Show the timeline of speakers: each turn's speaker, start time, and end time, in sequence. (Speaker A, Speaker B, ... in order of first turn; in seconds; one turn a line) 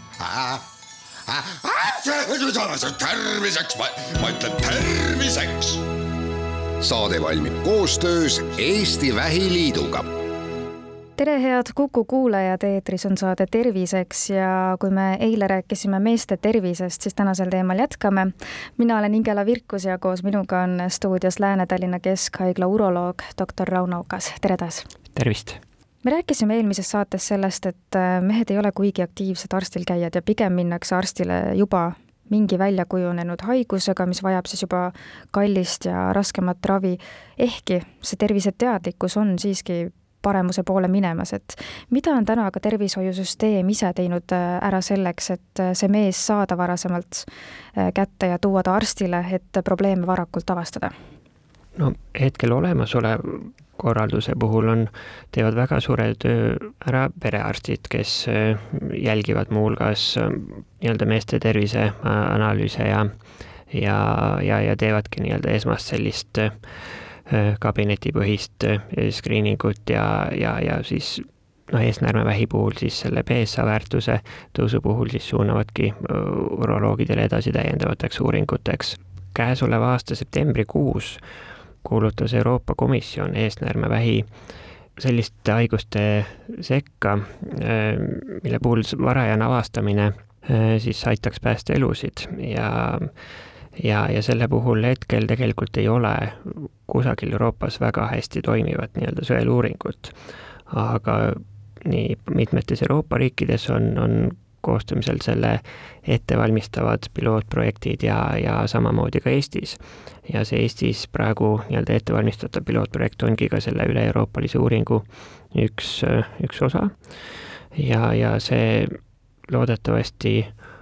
Speaker A: 0.2-0.6
Speaker A: 1.3-1.9
Speaker B: 1.6-5.7
Speaker A: 3.7-4.2
Speaker A: 6.8-10.1
Speaker C: 11.2-24.9
Speaker D: 25.1-25.6
Speaker C: 26.0-50.9
Speaker D: 51.8-63.1
Speaker D: 63.7-66.6
Speaker D: 67.3-81.2
Speaker D: 81.8-84.3
Speaker D: 85.0-93.1
Speaker D: 93.8-100.1
Speaker D: 100.7-116.9
Speaker D: 117.8-118.9
Speaker D: 119.5-120.5